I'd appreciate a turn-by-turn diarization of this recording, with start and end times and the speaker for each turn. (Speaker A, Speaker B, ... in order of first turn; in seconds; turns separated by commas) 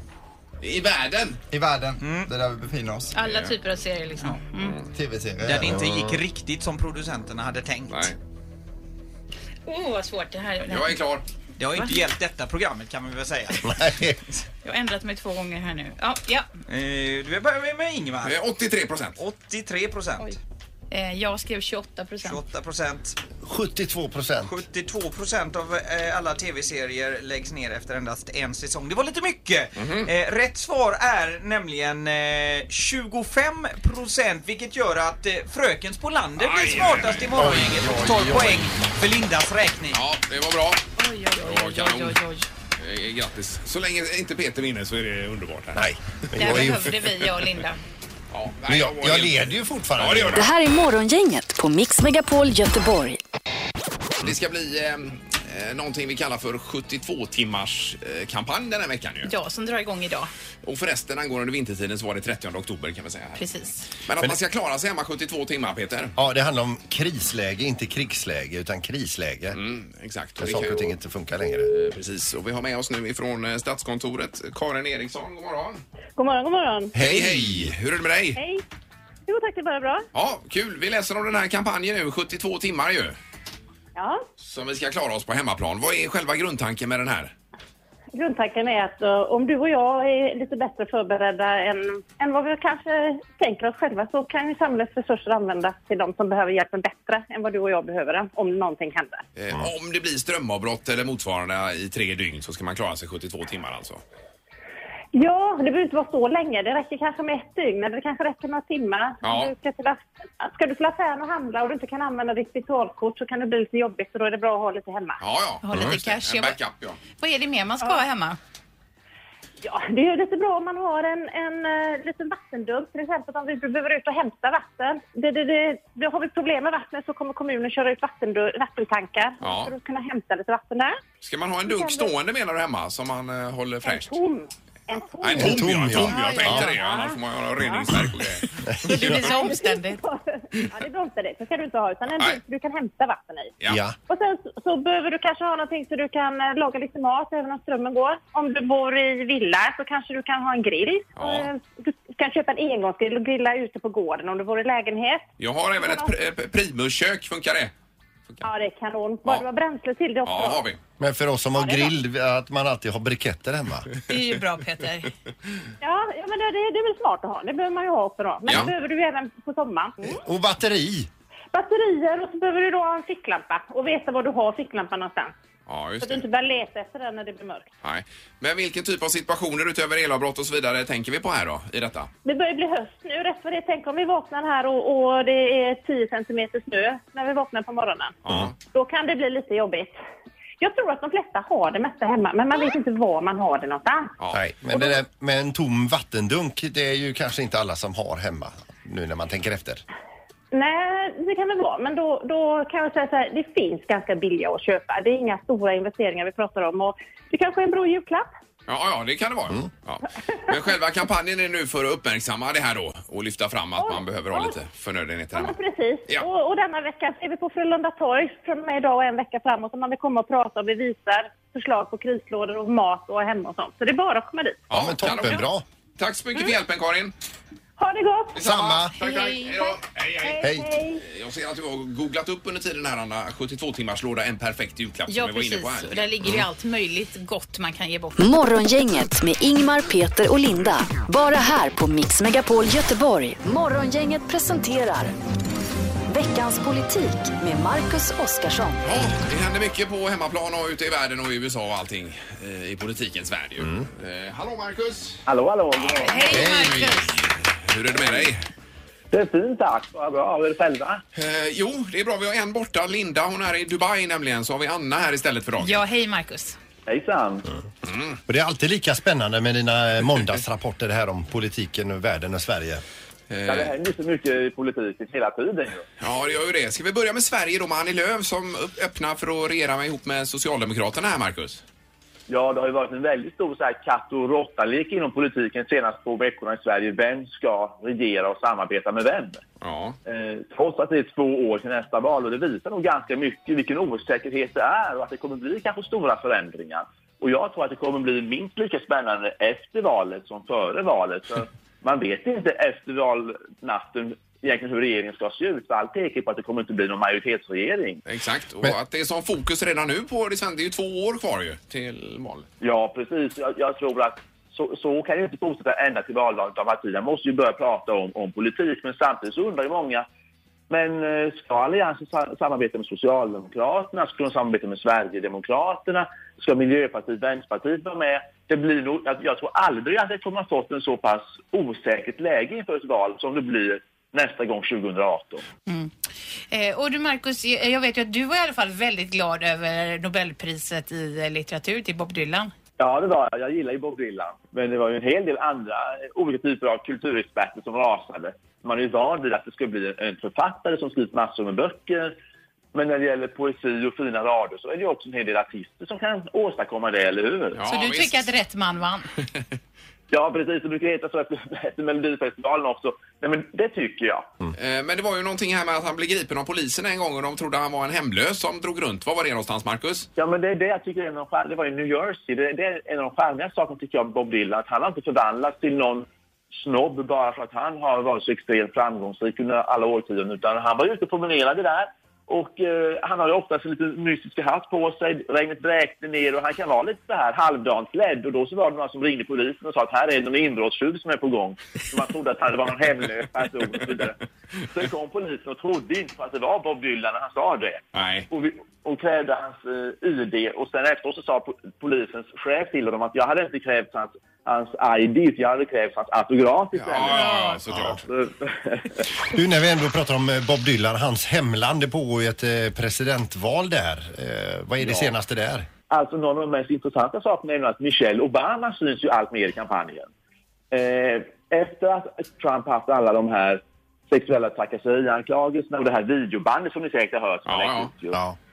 Speaker A: 0.6-1.4, Speaker B: 1.5-3.1, Speaker C: 2.0-2.3, Speaker D: 3.1-4.8, Speaker A: 3.2-3.5, Speaker A: 4.6-4.9, Speaker B: 4.9-5.8, Speaker C: 5.4-8.1, Speaker E: 5.7-6.2, Speaker A: 7.9-8.2, Speaker D: 9.7-10.9, Speaker A: 10.7-11.2, Speaker C: 11.6-13.9, Speaker E: 13.6-14.2, Speaker D: 14.6-16.5, Speaker C: 16.7-18.4, Speaker A: 18.2-19.2, Speaker C: 19.2-20.4, Speaker D: 20.9-22.4, Speaker C: 22.2-23.2, Speaker E: 23.4-24.6, Speaker C: 24.4-40.0, Speaker A: 29.8-30.1, Speaker A: 36.4-37.6, Speaker E: 37.4-38.7, Speaker A: 39.9-40.8, Speaker D: 41.0-42.5, Speaker A: 41.4-42.2, Speaker A: 42.8-45.9, Speaker E: 45.7-46.9, Speaker D: 46.4-47.8, Speaker A: 46.4-46.8, Speaker A: 48.3-50.5, Speaker E: 48.7-50.5, Speaker F: 50.4-53.2, Speaker A: 54.2-59.3, Speaker D: 59.2-60.3, Speaker A: 60.6-63.4, Speaker D: 63.4-63.9, Speaker A: 64.0-66.1, Speaker E: 66.2-69.6, Speaker A: 69.5-70.9, Speaker E: 70.4-71.7, Speaker A: 71.7-75.8, Speaker G: 76.2-76.9, Speaker E: 76.9-77.7, Speaker A: 77.0-78.4, Speaker G: 78.3-78.6, Speaker G: 79.3-80.0, Speaker A: 80.1-83.2, Speaker G: 84.0-84.2, Speaker A: 84.4-87.3, Speaker G: 88.1-99.2, Speaker A: 99.4-104.0, Speaker G: 105.1-115.2, Speaker A: 109.2-109.5, Speaker A: 115.2-117.0, Speaker D: 115.6-116.6, Speaker D: 117.2-118.4, Speaker G: 119.6-131.0, Speaker A: 129.4-129.7, Speaker A: 131.2-134.2, Speaker G: 131.6-132.1, Speaker G: 133.8-137.9, Speaker A: 135.2-138.6, Speaker E: 135.3-136.7, Speaker D: 136.1-136.8, Speaker D: 138.8-140.0, Speaker G: 139.0-143.5, Speaker E: 143.7-143.9, Speaker G: 144.1-156.1, Speaker A: 151.2-151.5, Speaker A: 155.4-157.7, Speaker G: 158.4-160.7, Speaker A: 160.2-160.8, Speaker E: 161.0-163.9, Speaker G: 161.5-161.9, Speaker D: 164.1-165.1, Speaker G: 165.8-170.2, Speaker A: 168.5-168.7, Speaker E: 170.1-171.1, Speaker G: 171.5-175.3, Speaker A: 175.7-176.2, Speaker G: 176.0-177.7, Speaker A: 177.8-182.1, Speaker G: 182.2-190.0, Speaker A: 188.2-188.5, Speaker G: 190.6-194.1, Speaker A: 194.2-194.5, Speaker E: 194.3-199.8, Speaker G: 200.5-208.3, Speaker A: 208.7-215.6, Speaker G: 213.8-214.6, Speaker G: 215.3-224.7, Speaker A: 224.7-227.1, Speaker E: 224.7-225.6, Speaker G: 227.8-228.4, Speaker A: 228.3-236.4, Speaker E: 228.4-228.9, Speaker D: 228.9-229.7, Speaker G: 230.2-231.0, Speaker E: 230.4-230.7, Speaker D: 235.1-238.3, Speaker F: 238.2-245.1, Speaker F: 246.1-248.8, Speaker A: 248.8-255.2, Speaker H: 255.2-256.3, Speaker A: 255.8-258.4, Speaker D: 256.0-257.1, Speaker E: 256.3-256.9, Speaker H: 259.1-261.0, Speaker A: 261.1-265.8, Speaker D: 265.6-266.6, Speaker H: 266.9-267.5, Speaker A: 267.8-268.2, Speaker E: 268.3-272.8, Speaker A: 273.3-273.8, Speaker H: 273.5-275.9, Speaker A: 276.0-281.6, Speaker H: 282.3-289.4, Speaker A: 289.6-290.0, Speaker H: 290.1-308.0, Speaker A: 308.1-312.5, Speaker H: 312.6-320.1, Speaker H: 320.7-335.4, Speaker D: 335.7-335.9, Speaker D: 336.5-342.5, Speaker H: 342.8-352.1, Speaker H: 352.7-357.6, Speaker A: 357.5-358.2, Speaker D: 357.7-359.1, Speaker H: 360.1-364.3, Speaker A: 364.5-370.1, Speaker H: 370.2-394.2, Speaker H: 394.7-409.1, Speaker A: 397.9-398.3, Speaker A: 406.7-408.1, Speaker E: 407.7-408.0, Speaker E: 409.3-415.7, Speaker H: 414.8-415.1, Speaker H: 415.9-420.1, Speaker H: 420.7-428.2, Speaker A: 427.5-428.2